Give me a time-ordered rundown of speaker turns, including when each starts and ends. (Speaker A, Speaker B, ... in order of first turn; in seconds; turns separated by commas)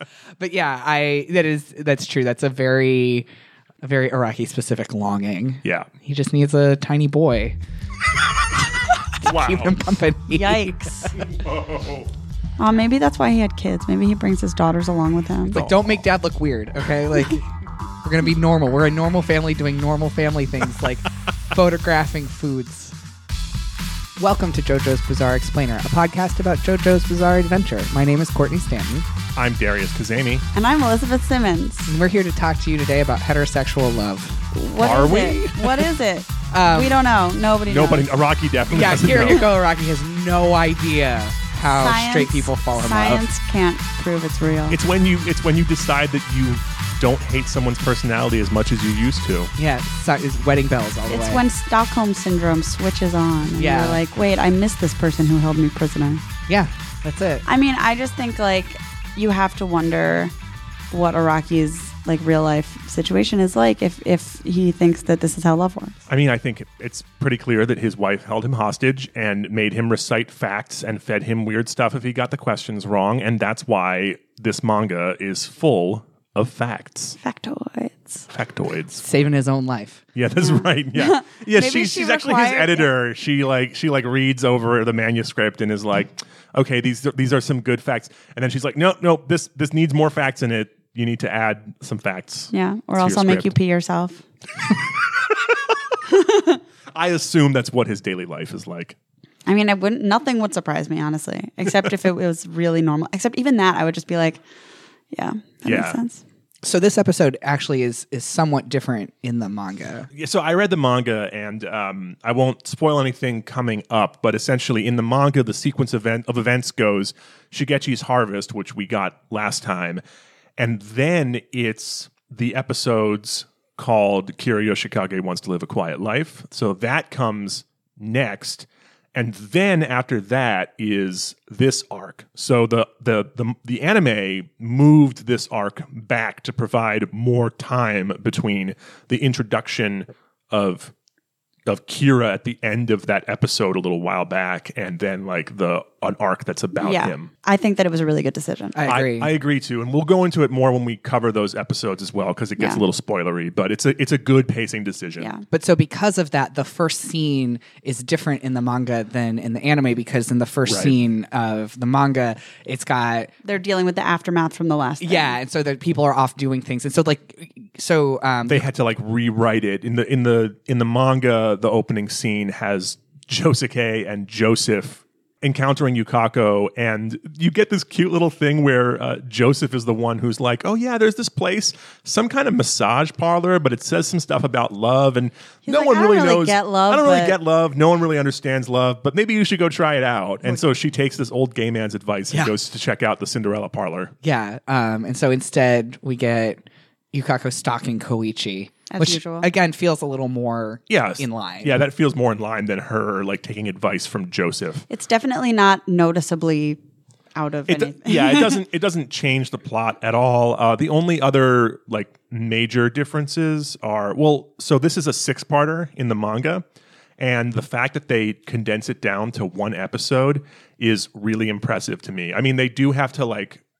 Speaker A: 0.4-3.2, Speaker A: 3.8-7.5, Speaker B: 5.6-5.9, Speaker A: 9.2-10.8, Speaker B: 9.2-9.8, Speaker C: 10.3-11.2, Speaker B: 11.2-12.1, Speaker C: 12.6-15.6, Speaker A: 15.5-17.5, Speaker B: 15.5-15.9, Speaker A: 18.0-22.9, Speaker A: 24.2-29.1, Speaker B: 29.4-30.4, Speaker C: 30.5-31.9, Speaker A: 31.9-35.8, Speaker C: 34.5-38.1, Speaker B: 34.8-35.4, Speaker A: 36.5-37.0, Speaker B: 37.7-39.4, Speaker A: 38.7-43.2, Speaker C: 39.0-39.5, Speaker C: 41.6-44.8, Speaker B: 44.7-49.5, Speaker A: 49.5-51.4, Speaker C: 51.1-56.2, Speaker A: 53.5-54.0, Speaker A: 56.5-57.4, Speaker C: 57.5-60.3, Speaker C: 60.9-66.0, Speaker B: 66.1-77.2, Speaker C: 77.2-78.2, Speaker B: 78.3-79.0, Speaker A: 79.0-80.0, Speaker B: 80.1-93.5, Speaker C: 80.4-82.9, Speaker C: 92.5-94.2, Speaker B: 95.2-95.9, Speaker C: 96.1-96.6, Speaker B: 96.9-99.0, Speaker C: 99.5-104.4, Speaker C: 105.1-106.2, Speaker B: 105.7-106.0, Speaker A: 106.6-110.1, Speaker B: 110.1-120.0, Speaker B: 120.6-140.9, Speaker B: 141.7-147.3, Speaker C: 146.8-148.8, Speaker A: 148.7-149.3, Speaker B: 148.8-155.3, Speaker C: 155.2-155.4, Speaker A: 155.5-163.3, Speaker B: 160.7-160.9, Speaker C: 163.4-165.4, Speaker A: 165.0-168.6, Speaker B: 168.5-194.1, Speaker C: 185.7-187.4, Speaker A: 194.2-201.8, Speaker C: 198.9-199.5, Speaker B: 200.9-204.8, Speaker C: 204.9-206.8, Speaker C: 207.3-208.6, Speaker B: 207.7-216.6, Speaker B: 217.2-223.6